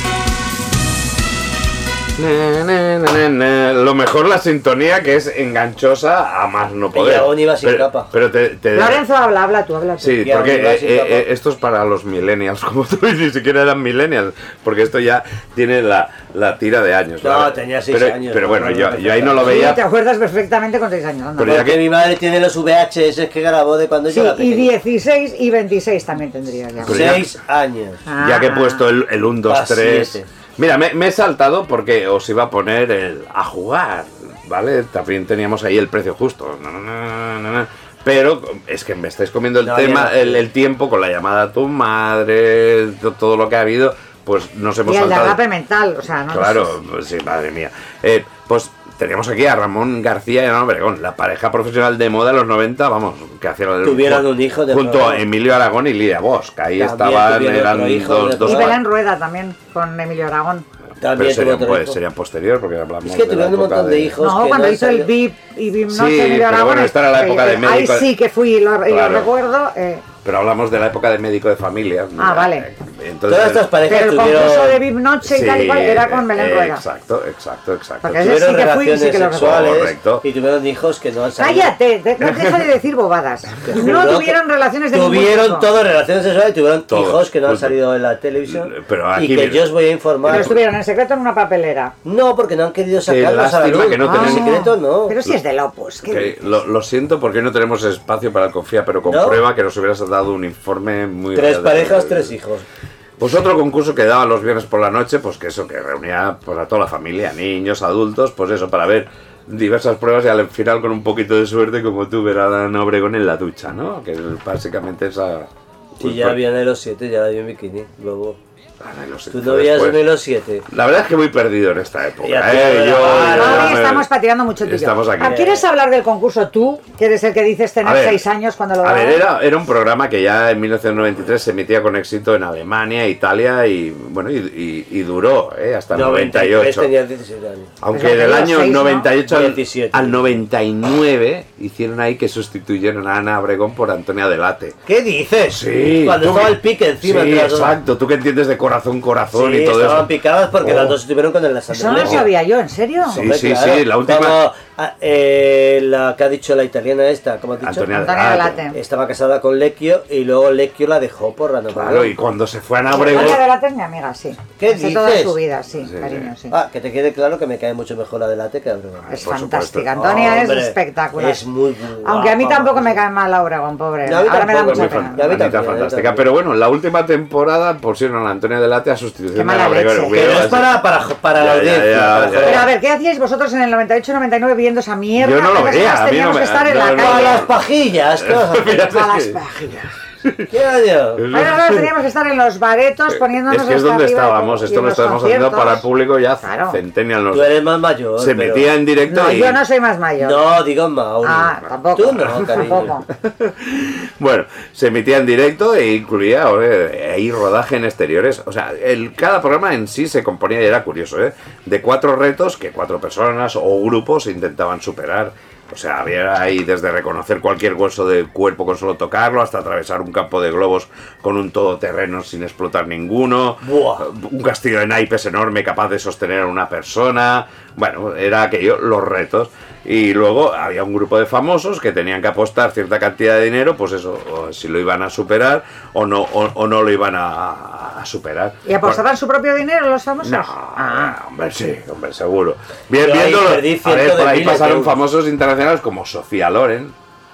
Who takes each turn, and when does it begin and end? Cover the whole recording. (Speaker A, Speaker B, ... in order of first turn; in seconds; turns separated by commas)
Speaker A: 2.1-9.0, Speaker B: 6.9-8.1, Speaker C: 8.7-10.2, Speaker A: 10.0-19.8, Speaker B: 10.2-11.2, Speaker B: 17.2-19.8, Speaker C: 19.4-21.7, Speaker A: 21.4-21.9, Speaker B: 21.4-24.7, Speaker C: 24.1-27.2, Speaker A: 26.8-27.4, Speaker B: 26.9-28.0, Speaker C: 28.1-28.8, Speaker A: 28.2-45.4, Speaker B: 29.5-30.3, Speaker B: 39.6-40.4, Speaker C: 44.8-46.7, Speaker A: 46.3-58.8, Speaker B: 53.8-55.2, Speaker B: 56.8-58.8, Speaker C: 58.4-60.6, Speaker A: 61.0-64.2, Speaker B: 61.0-62.0, Speaker B: 63.0-65.1, Speaker C: 64.2-70.0, Speaker A: 65.9-68.1, Speaker A: 68.8-69.3, Speaker A: 70.2-74.1, Speaker C: 72.2-72.6, Speaker B: 73.3-74.8, Speaker C: 73.9-76.8, Speaker A: 75.2-78.6, Speaker C: 78.0-79.7, Speaker B: 78.2-81.7, Speaker A: 79.3-80.2, Speaker C: 81.4-85.7, Speaker A: 82.2-82.7, Speaker B: 83.7-84.4, Speaker B: 84.9-90.6, Speaker A: 86.9-87.8, Speaker A: 88.4-90.6, Speaker C: 90.3-91.9, Speaker B: 92.0-95.2, Speaker A: 93.0-94.5, Speaker C: 94.0-96.4, Speaker A: 96.0-102.3, Speaker B: 99.0-99.4, Speaker B: 101.3-102.6, Speaker A: 103.2-116.4, Speaker B: 116.0-118.4, Speaker A: 118.8-120.0, Speaker B: 119.3-120.7, Speaker A: 120.7-125.4, Speaker B: 122.2-123.8, Speaker C: 123.1-129.2, Speaker B: 125.2-125.6, Speaker A: 127.8-128.2, Speaker A: 128.8-136.9, Speaker B: 135.9-137.7, Speaker A: 137.8-144.8, Speaker C: 137.9-139.1, Speaker B: 139.3-140.2, Speaker B: 144.9-147.8, Speaker A: 145.5-151.0, Speaker B: 149.3-152.3, Speaker C: 151.7-153.2, Speaker A: 151.9-152.2, Speaker A: 153.0-154.4, Speaker B: 153.2-157.9, Speaker A: 157.6-158.6, Speaker C: 157.9-158.8, Speaker B: 158.7-162.1, Speaker A: 161.7-163.4, Speaker C: 162.9-166.5, Speaker B: 163.0-163.4, Speaker B: 164.6-165.4, Speaker A: 165.8-166.3, Speaker B: 166.5-169.1, Speaker A: 169.1-170.5, Speaker C: 169.1-171.4, Speaker B: 170.0-173.0, Speaker C: 172.0-175.4, Speaker B: 174.0-176.2, Speaker A: 174.6-182.7, Speaker C: 179.3-180.4, Speaker B: 180.1-182.7, Speaker C: 182.4-187.4, Speaker A: 185.2-187.6, Speaker B: 186.9-188.9, Speaker A: 188.1-190.5, Speaker C: 188.8-189.8, Speaker B: 190.5-191.3, Speaker A: 191.2-191.9, Speaker C: 191.3-195.8, Speaker A: 193.1-197.6, Speaker C: 196.4-196.8, Speaker B: 197.3-198.7, Speaker A: 198.2-199.6, Speaker C: 199.1-200.4, Speaker B: 200.2-203.0, Speaker C: 201.2-203.0, Speaker A: 202.4-239.0, Speaker B: 223.6-224.0, Speaker C: 238.6-241.2, Speaker A: 240.2-246.9, Speaker B: 243.0-245.0